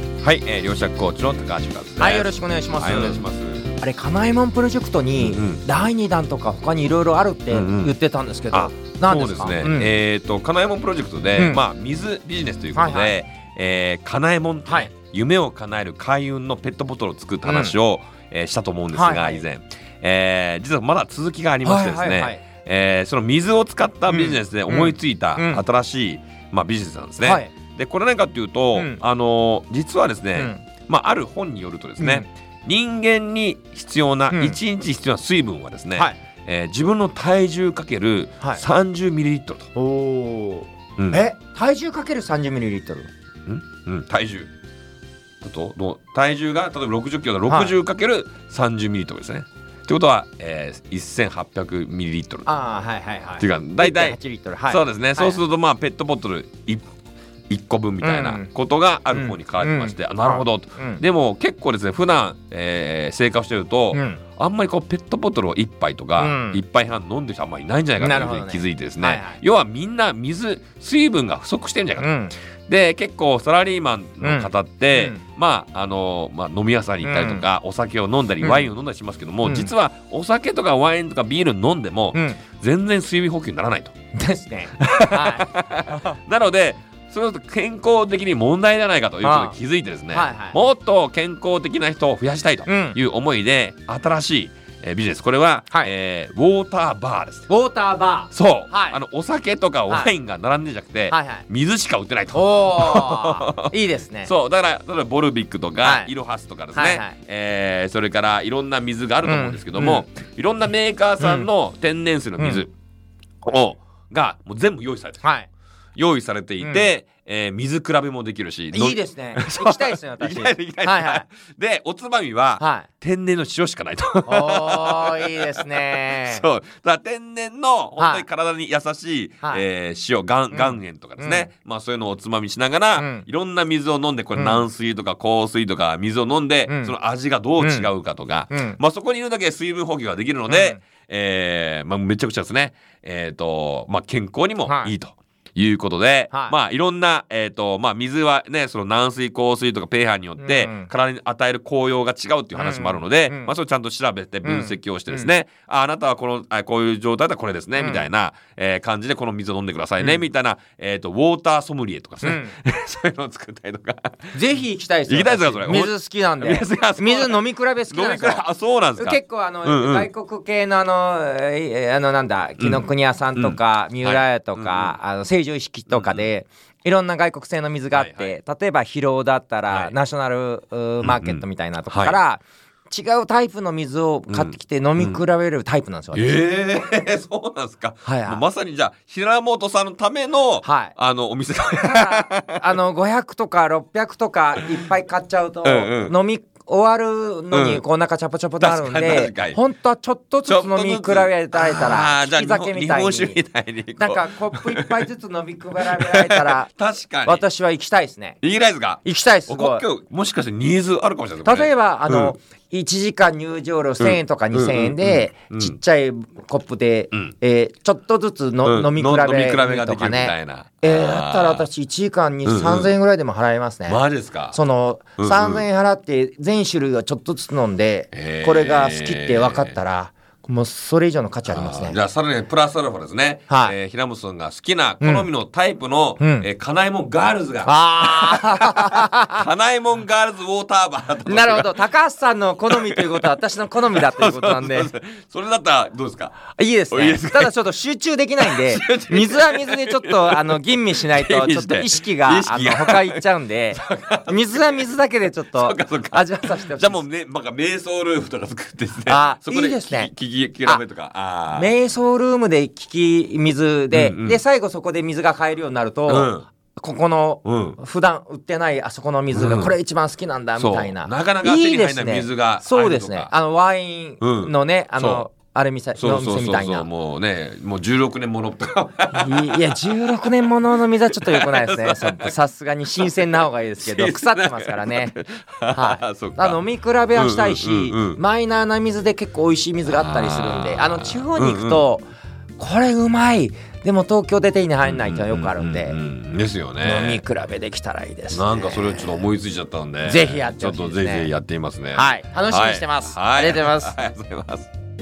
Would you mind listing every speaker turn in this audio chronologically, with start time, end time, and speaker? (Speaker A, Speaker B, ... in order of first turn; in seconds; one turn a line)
Speaker A: 0.2-3.7
Speaker B: 2.0-3.2
Speaker B: 3.8-9.9
Speaker A: 5.2-5.6
Speaker A: 7.5-7.9
Speaker A: 8.5-39.7
Speaker B: 11.3-11.6
Speaker B: 12.7-13.1
Speaker B: 17.4-17.7
Speaker B: 18.9-19.4
Speaker B: 21.6-22.4
Speaker B: 24.1-25.6
Speaker B: 27.2-27.5
Speaker B: 30.4-30.6
Speaker B: 32.0-32.2
Speaker B: 34.3-34.6
Speaker B: 39.7-43.1
Speaker A: 43.5-44.5
Speaker A: 45.4-52.5
Speaker B: 47.5-47.7
Speaker B: 52.5-55.4
Speaker A: 53.4-54.2
Speaker A: 54.7-56.8
Speaker A: 57.5-72.1
Speaker B: 58.0-58.5
Speaker B: 59.1-61.0
Speaker B: 63.9-64.2
Speaker B: 66.2-66.6
Speaker B: 68.0-69.4
Speaker B: 72.0-72.3
Speaker A: 72.7-83.9
Speaker B: 74.2-75.2
Speaker B: 77.0-77.4
Speaker B: 78.4-78.7
Speaker B: 79.4-79.7
Speaker B: 82.1-82.4
Speaker B: 84.1-86.1
Speaker A: 84.8-97.5
Speaker B: 89.2-89.5
Speaker B: 90.1-90.6
Speaker B: 92.7-93.0
Speaker B: 97.5-99.0
Speaker A: 98.3-103.7
Speaker B: 101.1-101.5
Speaker B: 102.3-104.3
Speaker A: 104.2-112.7
Speaker B: 105.8-106.1
Speaker B: 106.7-107.1
Speaker B: 109.2-110.0
Speaker B: 111.2-111.5
Speaker B: 112.4-112.6
Speaker A: 113.4-115.2
Speaker B: 115.2-115.5
Speaker A: 116.0-164.3
Speaker B: 116.6-116.9
Speaker B: 118.7-121.2
Speaker B: 122.6-122.9
Speaker B: 124.2-126.4
Speaker B: 128.0-128.2
Speaker B: 130.5-131.5
Speaker B: 132.9-133.2
Speaker B: 134.3-134.7
Speaker B: 136.7-136.9
Speaker B: 137.6-137.9
Speaker B: 138.5-138.8
Speaker B: 140.5-140.8
Speaker B: 144.6-144.9
Speaker B: 150.4-150.9
Speaker B: 152.5-153.5
Speaker B: 154.4-155.3
Speaker B: 157.8-158.0
Speaker B: 162.2-162.5
Speaker B: 164.3-168.4
Speaker A: 165.1-170.1
Speaker B: 168.9-186.3
Speaker A: 172.6-175.0
Speaker A: 175.9-176.3
Speaker A: 177.9-178.3
Speaker A: 181.0-182.2
Speaker A: 184.3-185.2
Speaker A: 186.1-192.8
Speaker B: 188.0-188.4
Speaker B: 190.6-190.9
Speaker B: 191.8-203.4
Speaker A: 195.6-196.1
Speaker A: 197.5-197.8
Speaker A: 198.6-199.6
Speaker A: 200.4-205.1
Speaker B: 204.0-206.7
Speaker A: 205.8-207.4
Speaker B: 207.2-208.4
Speaker A: 208.4-212.3
Speaker B: 209.0-209.8
Speaker B: 211.4-224.0
Speaker A: 214.0-215.8
Speaker A: 218.6-221.7
Speaker A: 222.4-222.9
Speaker A: 223.8-224.6
Speaker B: 224.5-232.0
Speaker A: 225.2-225.6
Speaker A: 228.1-229.7
Speaker A: 231.5-241.8
Speaker B: 233.5-233.7
Speaker B: 235.0-235.3
Speaker B: 236.2-236.5
Speaker B: 237.6-239.4
Speaker B: 241.2-244.9
Speaker A: 242.7-247.5
Speaker B: 246.6-257.0
Speaker A: 248.4-253.2
Speaker A: 253.7-254.8
Speaker A: 255.5-261.7
Speaker B: 259.1-260.1
Speaker B: 261.5-276.9
Speaker A: 263.9-264.4
Speaker A: 266.1-266.5
Speaker A: 267.4-267.8
Speaker A: 269.3-269.7
Speaker A: 270.6-273.3
Speaker A: 274.2-275.2
Speaker A: 276.0-280.4
Speaker B: 279.1-285.1
Speaker A: 281.1-282.3
Speaker A: 282.9-286.6
Speaker B: 285.7-292.1
Speaker A: 287.1-288.2
Speaker A: 289.8-291.8
Speaker B: 292.6-296.0
Speaker A: 294.8-297.2
Speaker B: 296.8-299.2
Speaker A: 298.3-304.7
Speaker B: 300.0-301.3
Speaker B: 301.9-303.9